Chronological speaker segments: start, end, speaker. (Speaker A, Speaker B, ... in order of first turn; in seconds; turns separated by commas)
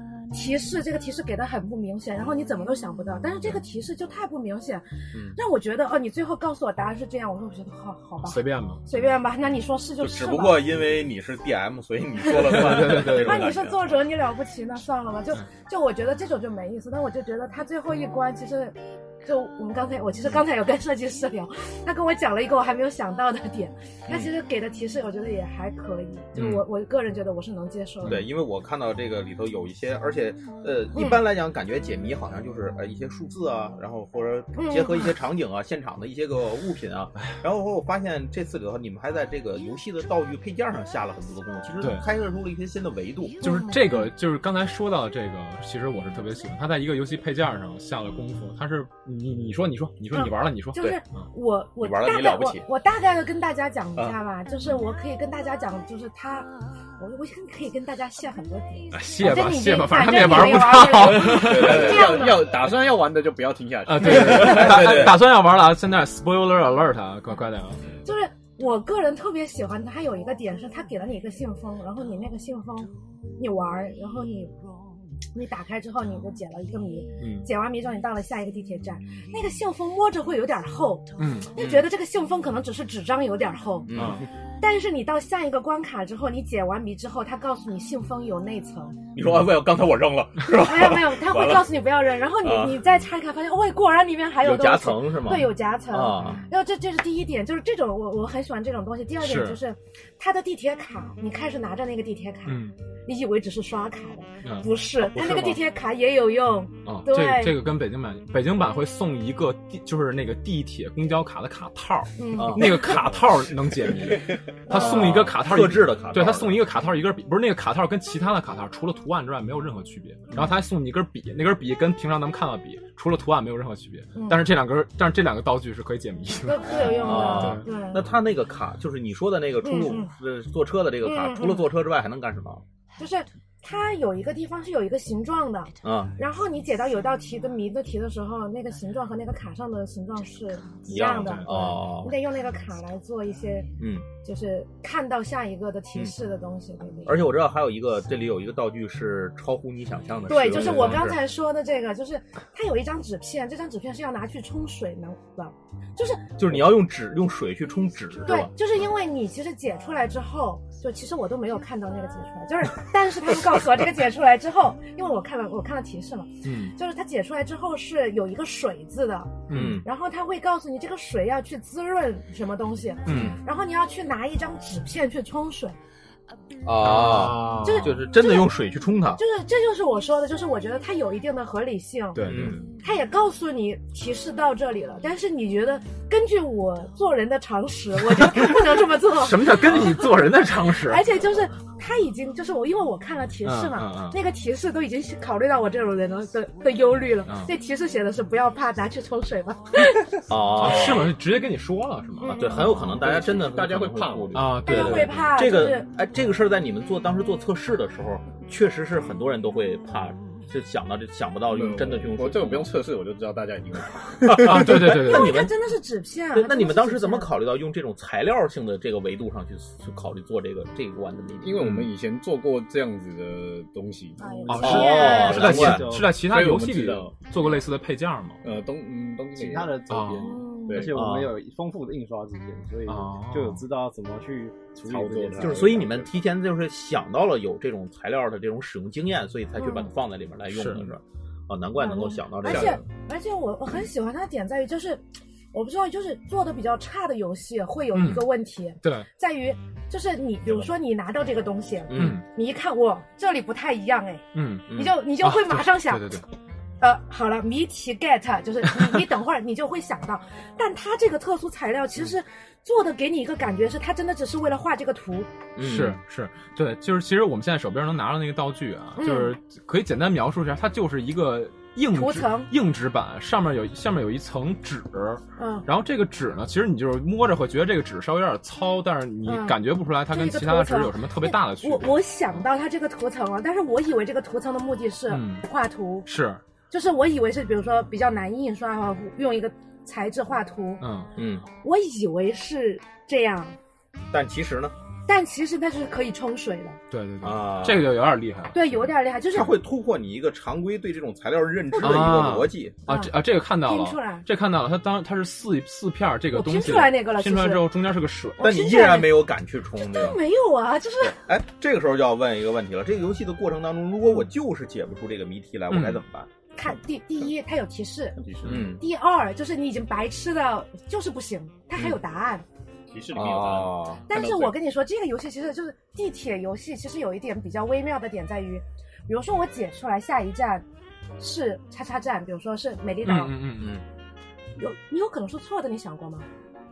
Speaker A: 0.3-10.7, Speaker B: 5.1-5.4, Speaker C: 8.2-8.8, Speaker B: 10.0-14.0, Speaker C: 12.5-13.4, Speaker A: 12.8-28.2, Speaker C: 26.4-26.6, Speaker C: 28.0-28.3, Speaker B: 28.1-43.4, Speaker A: 30.9-31.2, Speaker A: 34.5-35.1, Speaker C: 41.8-42.0, Speaker C: 43.4-51.3, Speaker A: 43.4-43.8, Speaker A: 50.1-62.6, Speaker B: 51.8-52.7, Speaker C: 58.9-62.1, Speaker D: 61.1-65.2, Speaker C: 63.9-67.8, Speaker B: 64.0-65.2, Speaker A: 68.0-74.5, Speaker A: 75.3-83.9, Speaker C: 77.2-77.5, Speaker C: 81.2-81.5, Speaker B: 83.9-84.3, Speaker C: 83.9-84.2, Speaker A: 84.6-89.0, Speaker B: 89.1-91.8, Speaker A: 90.6-107.6, Speaker B: 92.4-92.8, Speaker B: 94.4-96.4, Speaker C: 96.2-96.5, Speaker C: 99.2-99.6, Speaker C: 102.5-102.7, Speaker C: 104.4-104.7, Speaker B: 105.0-105.6, Speaker C: 106.9-127.7, Speaker A: 112.2-113.0, Speaker B: 112.3-113.0, Speaker B: 114.7-116.7, Speaker A: 124.1-124.5, Speaker A: 126.4-128.0, Speaker B: 126.7-132.6, Speaker A: 129.6-130.1, Speaker A: 131.0-131.7, Speaker A: 133.0-143.7, Speaker B: 135.8-136.2, Speaker B: 140.9-142.1, Speaker C: 141.2-141.6, Speaker B: 143.8-144.1, Speaker A: 144.2-147.3, Speaker B: 147.0-151.2, Speaker A: 150.3-156.3, Speaker C: 150.6-151.0, Speaker B: 156.4-158.5, Speaker A: 158.2-175.8, Speaker C: 166.4-166.7, Speaker C: 169.5-169.8, Speaker B: 169.5-169.8, Speaker C: 173.1-173.4, Speaker B: 173.1-173.4, Speaker B: 176.6-179.2, Speaker C: 176.8-177.9, Speaker A: 177.6-178.5, Speaker A: 179.1-200.1, Speaker C: 182.1-182.7, Speaker B: 182.2-182.7, Speaker C: 189.2-191.0, Speaker C: 193.4-194.1, Speaker B: 193.8-194.2, Speaker B: 200.3-201.2, Speaker C: 200.5-202.9, Speaker A: 202.2-202.6, Speaker B: 202.3-212.7, Speaker D: 202.7-204.8, Speaker C: 204.3-205.3, Speaker A: 204.7-205.9, Speaker D: 211.5-214.5, Speaker B: 214.2-215.5, Speaker C: 214.4-215.4, Speaker A: 214.9-217.3, Speaker B: 216.3-221.6, Speaker D: 221.4-224.3, Speaker C: 221.6-221.9, Speaker A: 224.2-225.6, Speaker E: 224.3-226.2, Speaker C: 224.5-228.4, Speaker B: 224.6-225.8, Speaker D: 225.0-227.6, Speaker D: 228.4-229.8, Speaker E: 229.3-235.9, Speaker C: 229.9-230.3, Speaker A: 230.2-230.9, Speaker D: 230.7-231.1, Speaker B: 230.9-231.3, Speaker C: 232.9-233.6, Speaker D: 234.9-236.1, Speaker B: 235.4-242.8, Speaker A: 239.6-239.9, Speaker C: 240.5-240.9, Speaker A: 241.8-256.2, Speaker C: 247.9-248.3, Speaker C: 248.8-249.1, Speaker B: 251.9-252.2, Speaker C: 251.9-252.2, Speaker C: 254.3-256.2, Speaker B: 254.7-254.9, Speaker A: 256.8-265.3, Speaker B: 265.6-266.0, Speaker C: 265.6-282.0, Speaker A: 269.0-269.3, Speaker A: 271.9-272.5, Speaker A: 275.4-275.6, Speaker A: 279.2-286.1, Speaker C: 285.1-285.5, Speaker C: 286.1-286.4, Speaker A: 286.7-290.9, Speaker C: 290.8-291.1, Speaker B: 291.1-291.4, Speaker A: 291.6-293.6, Speaker B: 294.1-294.7, Speaker A: 295.1-296.8, Speaker C: 296.9-298.6, Speaker B: 297.2-298.0, Speaker A: 298.5-299.5, Speaker B: 299.3-302.8, Speaker A: 301.7-302.2, Speaker C: 301.8-308.5, Speaker A: 302.9-304.2, Speaker A: 306.3-307.7, Speaker A: 308.4-311.2, Speaker B: 308.4-310.2, Speaker B: 311.0-316.3, Speaker C: 315.7-316.0, Speaker A: 316.6-322.4, Speaker D: 318.2-318.7, Speaker B: 318.4-318.8, Speaker D: 322.9-324.6, Speaker B: 323.1-324.1, Speaker A: 324.1-330.6, Speaker A: 331.2-333.4, Speaker C: 333.0-333.8, Speaker B: 333.6-333.8, Speaker A: 334.6-336.3